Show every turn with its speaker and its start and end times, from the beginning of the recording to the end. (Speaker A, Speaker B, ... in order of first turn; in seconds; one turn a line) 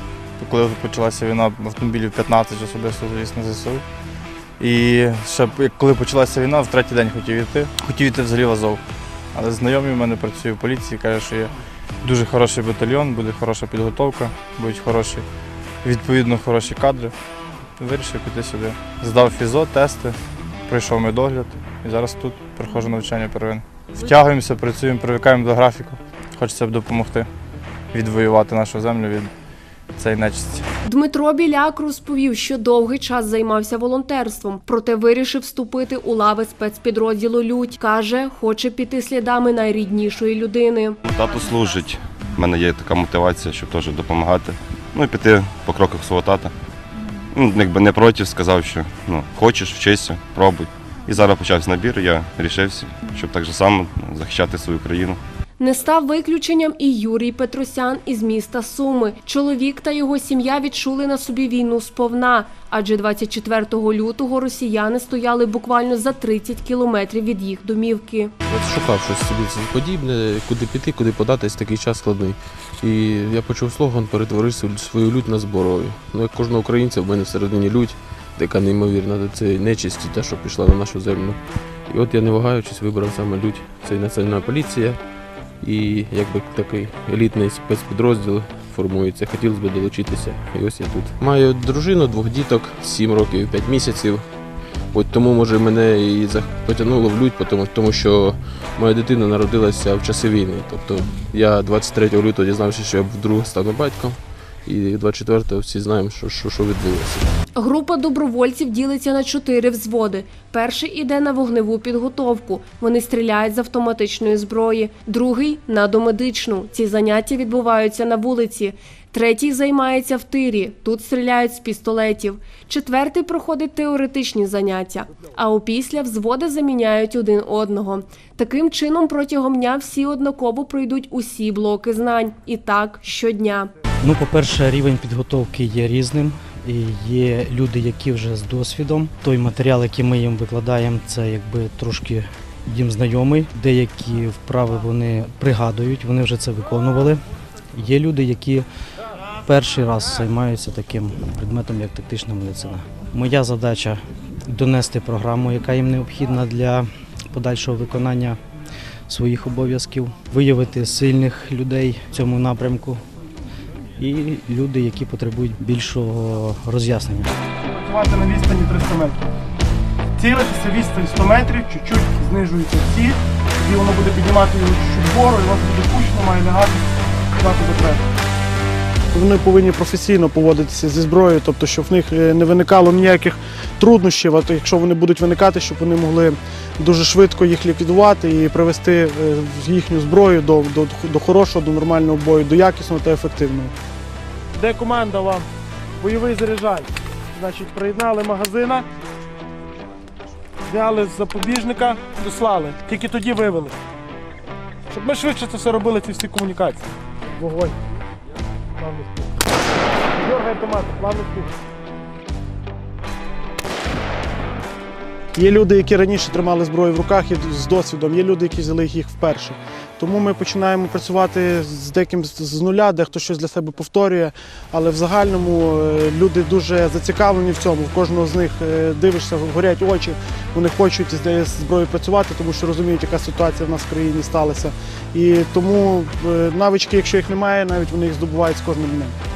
Speaker A: 0.4-3.8
Speaker A: 4.6-8.8
Speaker A: 9.3-15.2
Speaker A: 15.8-17.1
Speaker A: 17.8-20.1
Speaker A: 20.7-27.3
Speaker B: 23.9-24.2
Speaker A: 27.9-29.3
Speaker A: 29.9-30.6
Speaker B: 30.9-41.0
Speaker C: 41.0-46.5
Speaker C: 47.3-55.2
Speaker B: 55.6-68.3
Speaker D: 68.4-107.3
Speaker B: 107.5-133.7
Speaker E: 134.0-147.2
Speaker E: 147.7-148.7
Speaker E: 149.4-158.4
Speaker E: 159.1-163.0
Speaker E: 164.0-167.3
Speaker F: 167.7-169.2
Speaker F: 170.2-176.8
Speaker F: 177.4-178.0
Speaker F: 179.1-193.7
Speaker F: 194.5-195.4
Speaker F: 196.0-198.8
Speaker F: 200.7-203.7
Speaker F: 204.9-206.8
Speaker F: 207.4-207.7
Speaker F: 208.8-209.2
Speaker F: 210.2-211.5
Speaker F: 215.3-239.2